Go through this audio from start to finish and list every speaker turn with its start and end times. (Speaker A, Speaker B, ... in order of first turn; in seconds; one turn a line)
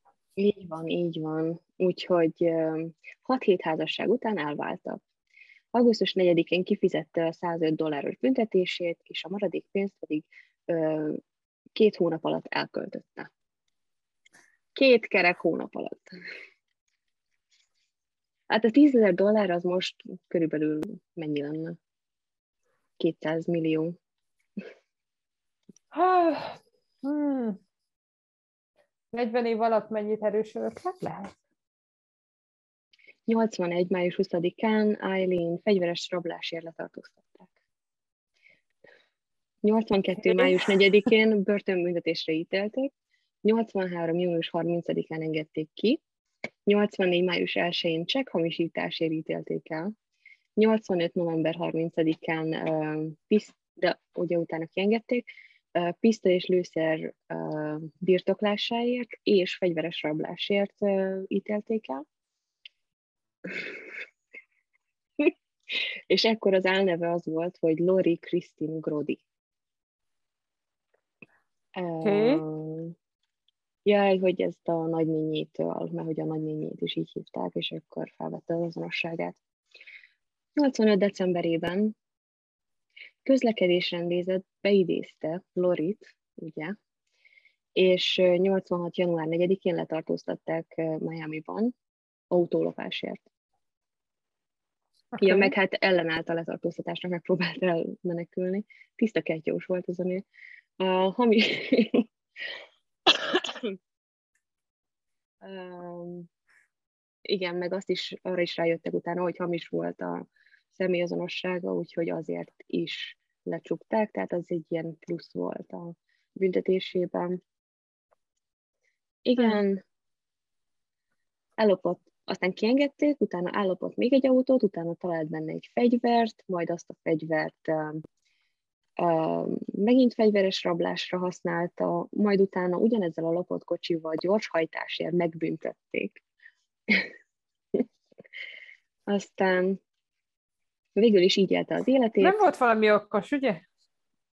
Speaker A: 0.4-5.0
Speaker A: 5.7-11.2
Speaker A: 11.7-13.3
Speaker A: 14.7-16.1
Speaker A: 18.5-21.8
Speaker A: 23.0-23.9
Speaker B: 25.9-27.6
Speaker B: 29.1-31.4
Speaker A: 33.3-37.5
Speaker A: 39.6-42.9
Speaker B: 40.2-40.6
Speaker A: 43.4-46.0
Speaker A: 46.7-49.9
Speaker A: 50.6-62.0
Speaker A: 63.4-63.9
Speaker A: 65.2-69.2
Speaker A: 71.7-72.9
Speaker B: 72.0-72.4
Speaker A: 73.8-79.4
Speaker A: 80.5-81.9
Speaker A: 83.2-86.7
Speaker A: 87.8-91.7
Speaker A: 92.3-93.2
Speaker B: 95.1-95.5
Speaker A: 95.2-100.2
Speaker A: 100.8-102.0
Speaker A: 103.0-103.8
Speaker A: 105.4-106.3
Speaker A: 107.2-117.4
Speaker A: 119.2-119.8
Speaker A: 121.6-128.0
Speaker A: 129.0-136.2
Speaker A: 139.1-139.8
Speaker A: 140.9-142.4
Speaker B: 142.2-143.6